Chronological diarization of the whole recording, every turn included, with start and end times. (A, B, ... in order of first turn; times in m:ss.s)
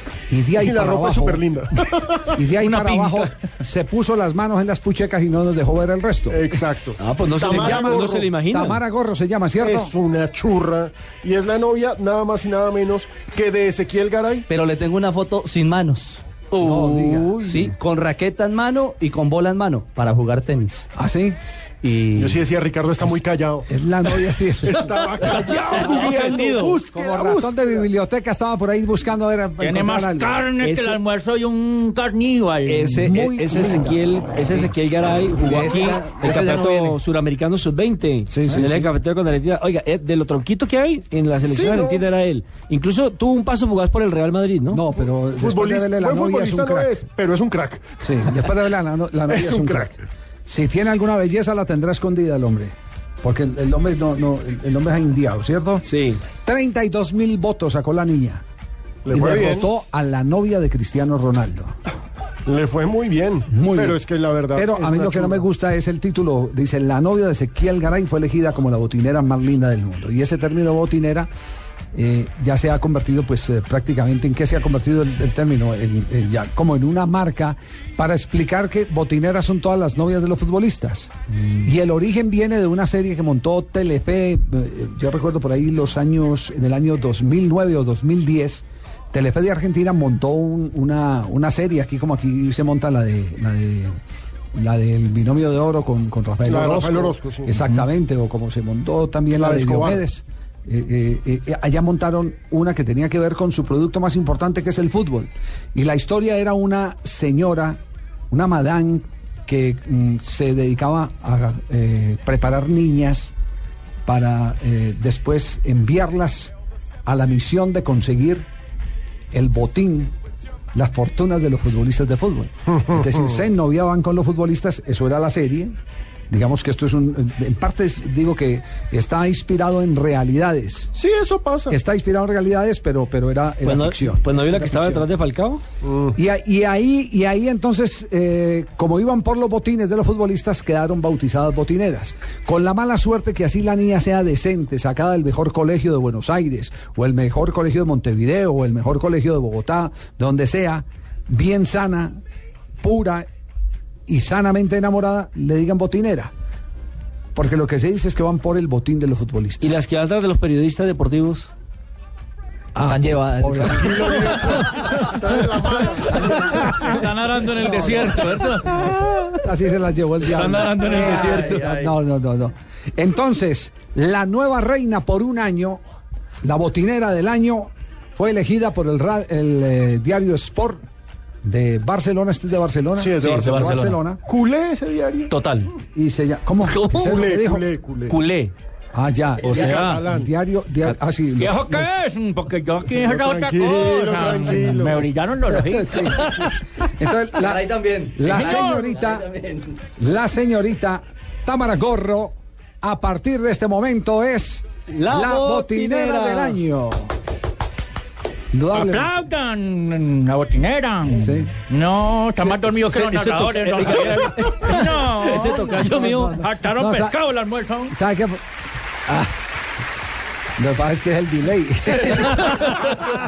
0:00.3-0:01.4 A
0:00.6-0:02.4 B
0:02.3-0:06.6 A
0:02.6-0:03.3 C
0:06.3-0:08.3 B
0:07.0-0:08.8 D
0:07.4-0:09.9 A
0:09.6-0:14.5 B
0:14.5-0:16.4 E
0:16.5-0:17.6 D
0:16.6-0:17.4 A
0:17.4-0:20.9 E
0:20.9-0:21.4 A
0:21.8-0:22.4 E
0:22.2-0:23.7 B
0:23.7-0:30.4 A
0:24.6-0:27.8 B
0:25.8-0:26.8 D
0:29.6-0:32.9 C
0:30.6-0:31.0 D
0:32.7-0:44.8 D
0:32.9-0:34.1 A
0:35.4-0:37.0 E
0:38.3-0:38.9 A
0:41.4-0:42.1 B
0:44.7-0:46.9 A
0:45.4-0:47.9 B
0:48.0-0:49.9 A
0:49.3-0:50.0 B
0:50.4-0:58.4 A
0:55.8-0:56.2 D
0:59.0-0:59.7 B
0:59.1-1:01.7 A
1:02.4-1:05.4 B
1:03.5-1:04.0 A
1:04.5-1:11.3 A
1:11.9-1:34.0 A
1:34.5-1:47.8 A
1:36.4-1:37.7 B
1:39.3-1:40.0 B
1:48.3-1:53.3 A
1:54.0-1:56.5 A
1:57.0-1:58.4 A
1:59.3-2:00.1 A
2:00.7-2:05.7 A
2:06.3-2:10.9 A
2:10.9-2:11.8 B
2:11.7-2:15.1 A
2:13.6-2:15.6 D
2:15.8-2:16.2 B
2:16.1-2:32.2 A
2:32.8-2:33.2 A
2:34.1-2:36.3 A
2:37.3-2:39.8 A
2:39.6-2:41.5 D
2:42.7-2:44.3 A
2:42.8-2:44.0 E
2:43.6-2:46.8 B
2:46.2-2:48.9 C
2:48.8-2:55.8 A
2:50.2-2:51.9 C
2:56.4-3:00.8 A
3:01.4-3:04.2 A
3:03.0-3:05.3 B
3:03.2-3:04.0 C
3:05.3-3:05.7 C
3:05.9-3:07.6 A
3:06.8-3:08.2 B
3:08.1-3:08.5 C
3:08.9-3:11.9 A
3:09.4-3:10.3 B
3:09.4-3:10.0 C
3:11.4-3:16.6 C
3:12.9-3:15.1 B
3:15.5-3:19.3 A
3:17.3-3:19.8 E
3:18.2-3:19.0 C
3:20.0-3:27.1 A
3:24.9-3:26.6 D
3:28.5-3:29.1 A
3:28.7-3:38.0 C
3:31.1-3:31.5 A
3:32.8-3:36.4 D
3:35.8-3:37.2 A
3:37.9-3:38.4 A
3:39.0-3:39.3 A
3:40.6-3:42.8 A
3:42.4-3:43.0 C